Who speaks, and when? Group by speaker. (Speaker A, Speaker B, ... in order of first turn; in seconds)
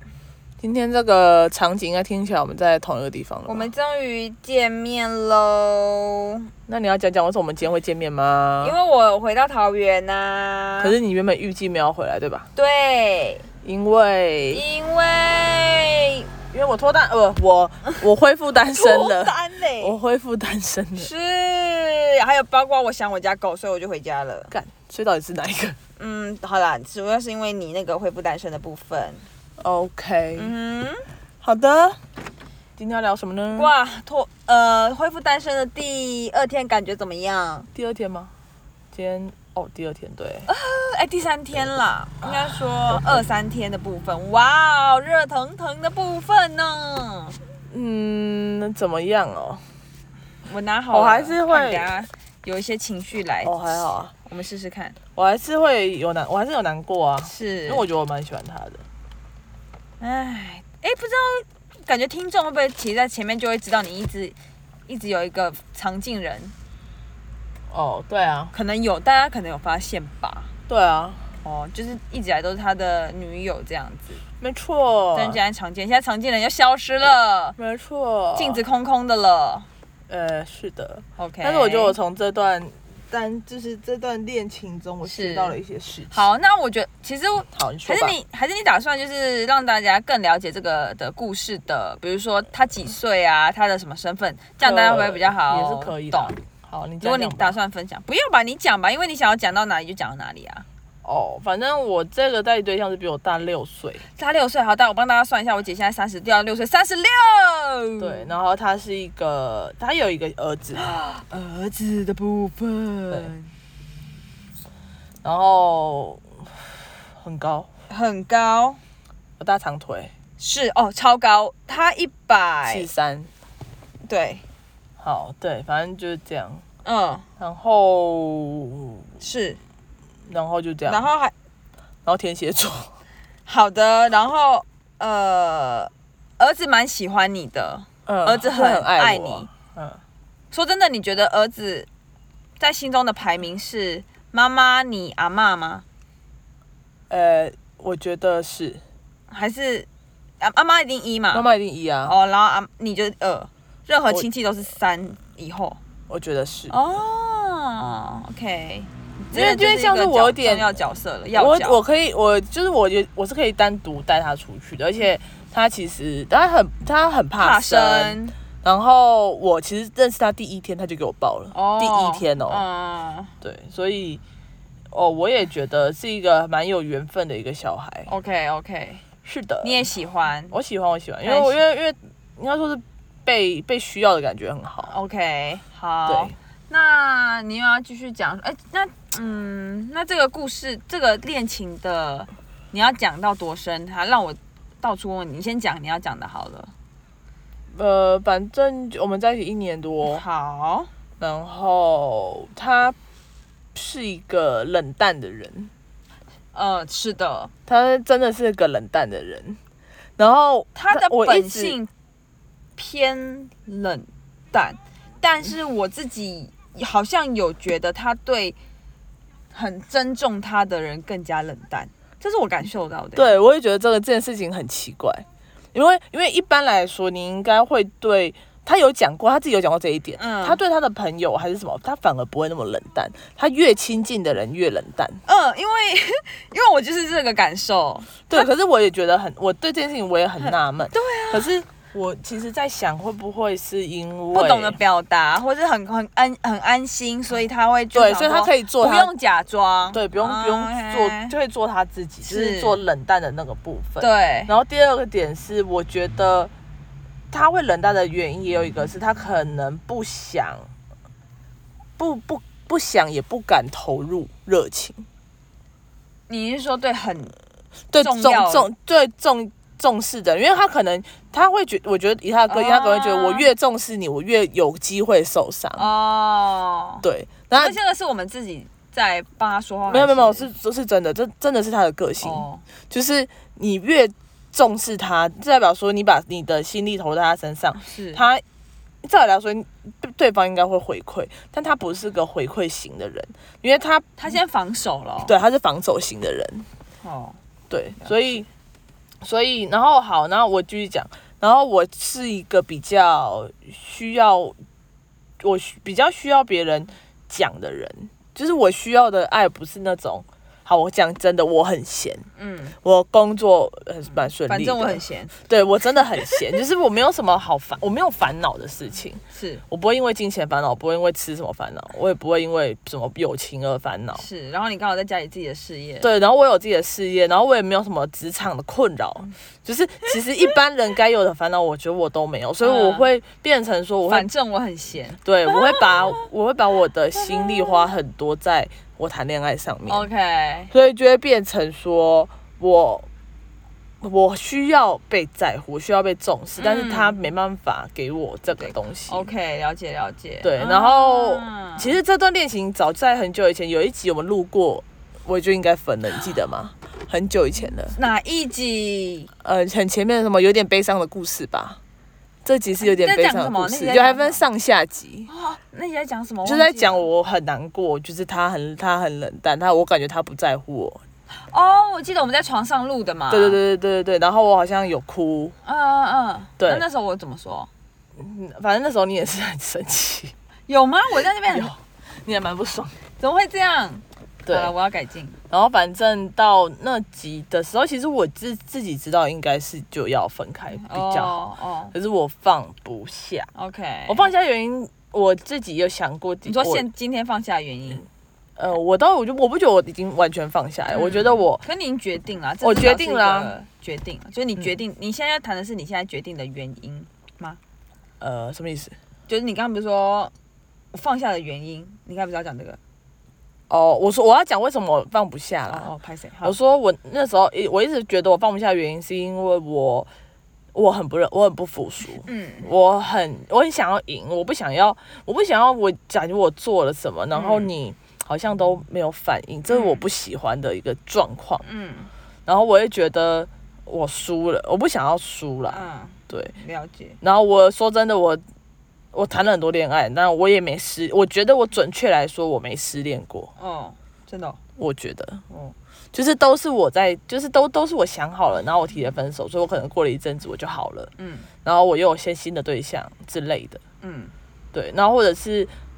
Speaker A: 0.6-3.7, 6.7-8.8, 10.8-12.5, 13.6-14.6, 16.5-21.1, 24.5-25.8, 29.6-30.5, 31.4-32.0, 32.8-33.7, 37.7-38.3, 38.9-40.5, 42.2-43.2, 47.7-49.6, 50.9-51.9, 53.4-54.1, 55.1-58.8, 67.7-68.5, 70.7-71.2, 74.4-75.4, 77.6-78.6, 80.1-86.2, 87.5-88.2, 94.6-97.5, 101.0-104.0, 108.0-110.9, 115.2-117.7, 119.4-120.1, 122.7-123.3, 125.0-126.6, 127.4-129.0, 130.3-131.1, 132.0-132.9, 138.1-140.0, 147.1-148.8, 151.3-152.1, 156.1-156.8, 159.3-160.8, 161.3-172.6, 173.4-174.2, 174.9-178.1, 179.2-179.9, 180.5-184.9, 186.1-186.3, 197.7-200.2, 201.2-202.9, 203.7-205.7, 207.7-209.6, 210.2-211.8, 223.2-235.2, 238.3-244.8, 247.9-249.1, 249.9-256.5, 257.3-260.7, 262.0-265.1, 267.9-275.8, 277.0-277.8, 279.9-288.4, 289.0-294.1, 295.2-296.6, 297.7-298.5, 299.2-304.6, 305.4-312.2, 312.8-324.2, 326.0-334.3, 335.2-340.1, 340.7-343.1, 344.0-349.2, 350.4-357.9, 359.4-361.8, 362.4-365.3, 366.4-371.0, 373.3-375.5, 376.6-376.8, 378.2-380.3, 381.5-383.0, 384.4-384.7, 385.5-391.4, 391.9-393.5, 394.1-396.9, 398.6-401.6, 402.6-403.5, 408.2-408.9, 413.7-415.9, 416.4-420.1, 420.7-431.6, 432.4-436.5, 437.2-438.4, 439.1-443.5, 444.8-445.4, 446.1-451.1, 451.6-453.8, 454.7-455.7
Speaker B: 3.5-6.4, 8.6-10.9, 12.6-13.5, 14.5-16.3, 18.7-19.9, 21.0-24.5, 26.0-29.2, 30.4-31.1, 33.5-37.7, 40.5-47.4, 50.4-53.5, 54.2-55.0, 57.2-57.9, 60.0-64.3, 64.9-66.5, 68.5-70.5, 71.4-74.2, 75.1-77.5, 78.3-79.7, 81.2-81.9, 85.0-85.6, 86.1-96.3, 97.0-100.7, 104.1-108.3, 110.7-113.5, 117.9-118.8, 120.4-122.9, 124.0-124.4, 126.8-127.3, 129.2-129.6, 130.9-131.3, 133.4-139.5, 140.5-141.9, 142.6-145.8, 149.3-149.9, 150.4-151.4, 152.1-155.8, 156.7-161.8, 167.4-168.3, 171.5-173.3, 178.1-179.0, 179.6-180.6, 181.2-181.6, 184.9-196.7, 200.0-200.9, 206.5-207.5, 210.7-211.9, 212.8-218.6, 219.5-223.3, 230.2-230.6, 235.2-238.5, 240.4-241.5, 244.3-251.3, 252.2-252.8, 254.0-254.5, 266.3-267.4, 268.0-268.7, 272.5-273.5, 275.8-280.5, 282.2-282.6, 287.8-288.2, 294.2-295.3, 297.0-297.4, 298.0-298.3, 312.4-312.8, 314.4-315.3, 319.3-319.6, 324.1-326.1, 332.6-333.1, 334.1-336.2, 337.1-337.8, 339.9-340.7, 346.6-347.3, 348.6-351.9, 357.9-359.3, 362.8-364.4, 365.3-367.1, 371.5-373.6, 375.6-377.7, 380.7-381.7, 383.2-385.4, 390.8-391.9, 393.5-394.3, 396.4-398.1, 400.9-407.6, 409.3-410.3, 410.9-412.8, 415.7-416.6, 422.2-422.7, 427.3-427.7, 429.7-430.0, 431.6-432.1, 435.7-437.2, 443.6-444.6, 451.2-451.5, 454.0-454.3